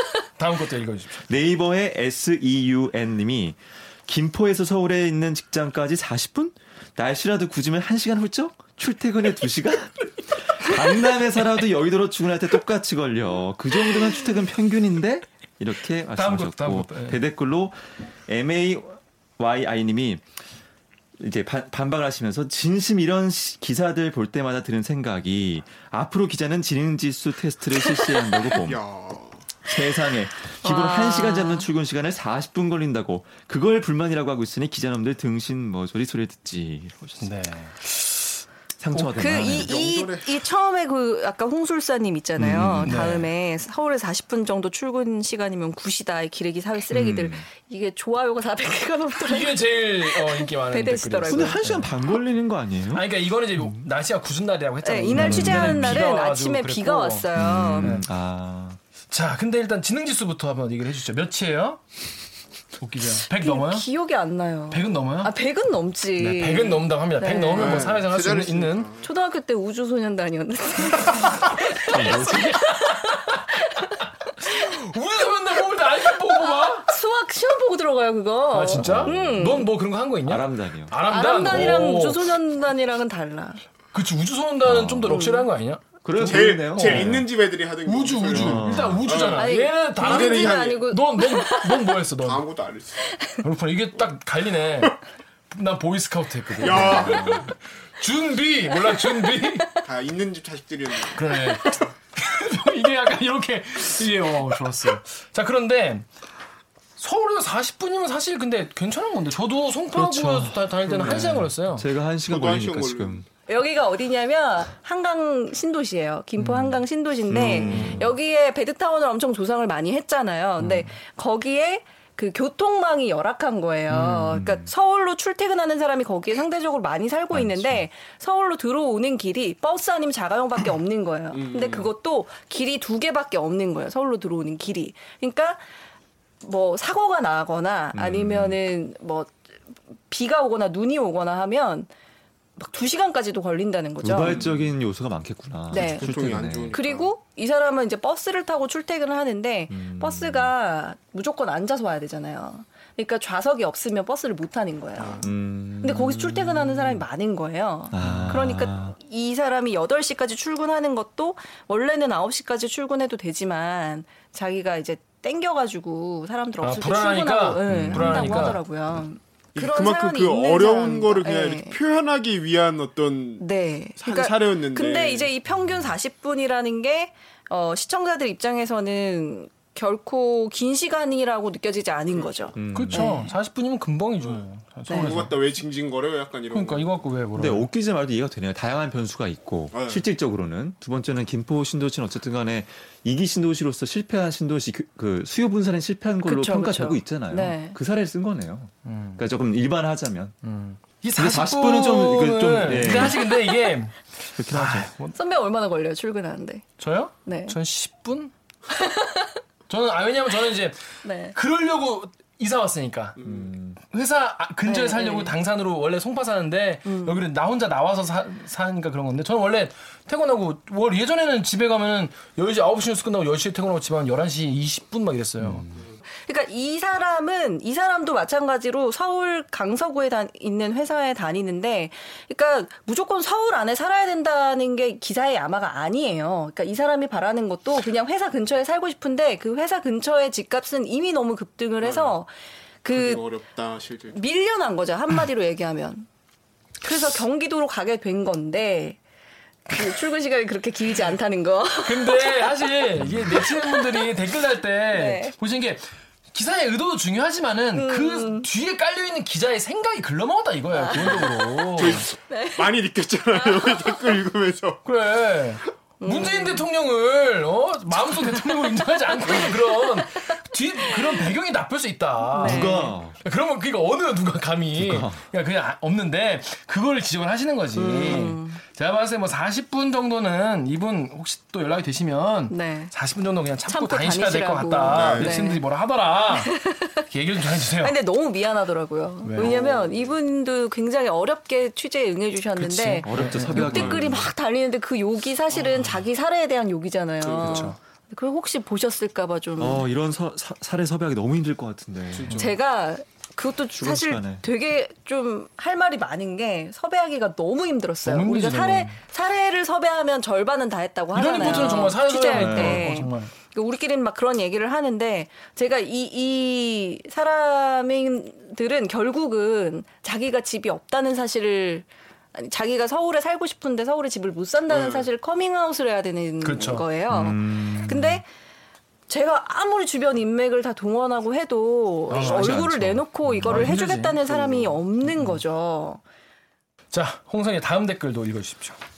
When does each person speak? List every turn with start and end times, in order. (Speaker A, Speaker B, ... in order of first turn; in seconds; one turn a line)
Speaker A: 0.4-1.3
Speaker B: 1.3-20.2
Speaker A: 16.1-17.2
Speaker B: 21.2-28.8
Speaker C: 28.6-29.5
Speaker B: 29.7-37.3
Speaker D: 30.6-31.7
Speaker A: 37.2-38.3
Speaker B: 38.8-39.8
Speaker D: 39.1-51.6
Speaker C: 39.4-40.4
Speaker B: 42.4-43.1
Speaker A: 42.8-43.3
Speaker B: 46.9-47.5
Speaker A: 49.2-51.9
Speaker B: 51.2-53.1
Speaker A: 52.9-58.0
Speaker B: 53.6-53.8
Speaker D: 54.8-58.0
Speaker B: 55.1-56.0
Speaker B: 57.3-58.8
Speaker A: 59.1-62.0
Speaker A: 62.8-63.9
Speaker D: 63.3-67.9
Speaker A: 64.7-65.3
Speaker A: 66.2-68.9
Speaker C: 67.6-69.1
Speaker D: 69.0-74.0
Speaker A: 71.8-76.9
Speaker B: 71.9-72.5
Speaker D: 76.2-79.7
Speaker A: 78.5-82.3
Speaker B: 78.8-79.3
Speaker B: 80.3-81.0
Speaker D: 81.1-83.6
Speaker A: 83.9-87.2
Speaker B: 84.6-85.2
Speaker D: 85.1-85.5
Speaker B: 86.0-87.3
Speaker C: 86.2-90.9
Speaker A: 87.8-92.5
Speaker B: 88.3-89.2
Speaker D: 89.3-91.9
Speaker C: 92.2-93.0
Speaker D: 93.0-93.4
Speaker A: 93.4-95.0
Speaker A: 95.5-99.7
Speaker C: 96.6-97.5
Speaker B: 96.8-97.5
Speaker C: 99.8-101.9
Speaker A: 101.1-106.1
Speaker A: 107.0-111.9
Speaker B: 109.9-113.3
Speaker C: 112.3-113.3
Speaker D: 113.5-135.7
Speaker A: 116.4-116.8
Speaker B: 117.3-118.1
Speaker A: 117.5-118.1
Speaker B: 120.6-120.9
Speaker B: 123.9-124.7
Speaker B: 127.3-127.8
Speaker C: 131.3-131.9
Speaker D: 136.4-139.4
Speaker B: 137.9-138.6
Speaker D: 140.1-141.9
Speaker D: 142.6-144.4
Speaker B: 144.0-146.8
Speaker C: 144.3-144.6
Speaker D: 145.7-146.1
Speaker C: 145.7-147.2
Speaker D: 146.7-171.8
Speaker B: 149.7-150.5
Speaker C: 155.0-155.3
Speaker B: 155.2-157.0
Speaker B: 157.9-158.9
Speaker A: 158.0-158.3
Speaker A: 166.6-168.6
Speaker B: 167.7-168.5
Speaker C: 169.6-173.5
Speaker D: 173.4-183.3
Speaker C: 174.0-175.3
Speaker B: 175.5-175.9
Speaker C: 182.1-182.6
Speaker B: 182.6-183.1
Speaker A: 182.7-185.3
Speaker C: 184.2-187.1
Speaker D: 184.9-185.2
Speaker A: 186.5-187.7
Speaker B: 187.3-200.3
Speaker C: 189.7-190.0
Speaker D: 196.2-197.8
Speaker A: 198.8-199.2
Speaker A: 200.4-205.2
Speaker B: 201.2-203.2
Speaker D: 203.1-203.8
Speaker B: 204.4-204.9
Speaker D: 205.2-206.7
Speaker A: 206.8-208.3
Speaker D: 207.3-207.6
Speaker D: 208.7-209.4
Speaker A: 209.7-213.2
Speaker D: 211.0-211.4
Speaker C: 213.2-213.5
Speaker B: 213.2-213.8
Speaker A: 213.9-225.7
Speaker D: 214.6-215.3
Speaker D: 216.8-217.2
Speaker B: 225.4-225.8
Speaker D: 226.2-242.3
Speaker C: 241.8-242.2
Speaker D: 242.8-243.3
Speaker C: 242.9-244.2
Speaker D: 244.1-246.1
Speaker D: 246.8-249.0
Speaker D: 249.7-252.5
Speaker A: 251.8-262.1
Speaker B: 253.0-253.3
Speaker D: 253.3-254.0
Speaker D: 254.9-255.3
Speaker D: 257.7-258.5
Speaker D: 260.7-261.6
Speaker C: 261.8-264.8
Speaker D: 262.3-262.8
Speaker D: 263.3-264.0
Speaker A: 264.9-286.5
Speaker D: 266.0-266.7
Speaker D: 268.3-268.6
Speaker D: 269.2-270.2
Speaker D: 270.8-271.2
Speaker D: 272.3-273.0
Speaker B: 272.4-273.2
Speaker B: 274.8-275.2
Speaker D: 277.8-278.6
Speaker D: 282.5-282.9
Speaker D: 283.7-285.6
Speaker C: 284.9-285.4
Speaker D: 286.3-299.8
Speaker A: 287.1-287.9
Speaker A: 289.2-289.6
Speaker C: 289.4-290.2
Speaker B: 292.6-294.3
Speaker A: 293.1-293.8
Speaker C: 293.6-294.1
Speaker C: 297.2-297.7
Speaker A: 297.4-297.8
Speaker B: 299.6-302.4
Speaker C: 302.1-302.6
Speaker A: 302.2-302.5
Speaker D: 302.3-328.3
Speaker B: 303.7-304.4
Speaker A: 308.0-309.0
Speaker A: 311.1-313.3
Speaker B: 312.3-312.9
Speaker C: 324.7-325.1
Speaker A: 326.4-326.9
Speaker B: 327.1-328.2
Speaker D: 329.1-336.0
Speaker A: 332.1-332.6
Speaker B: 332.1-333.7
Speaker A: 333.4-334.2
Speaker C: 334.2-334.8
Speaker A: 336.9-338.8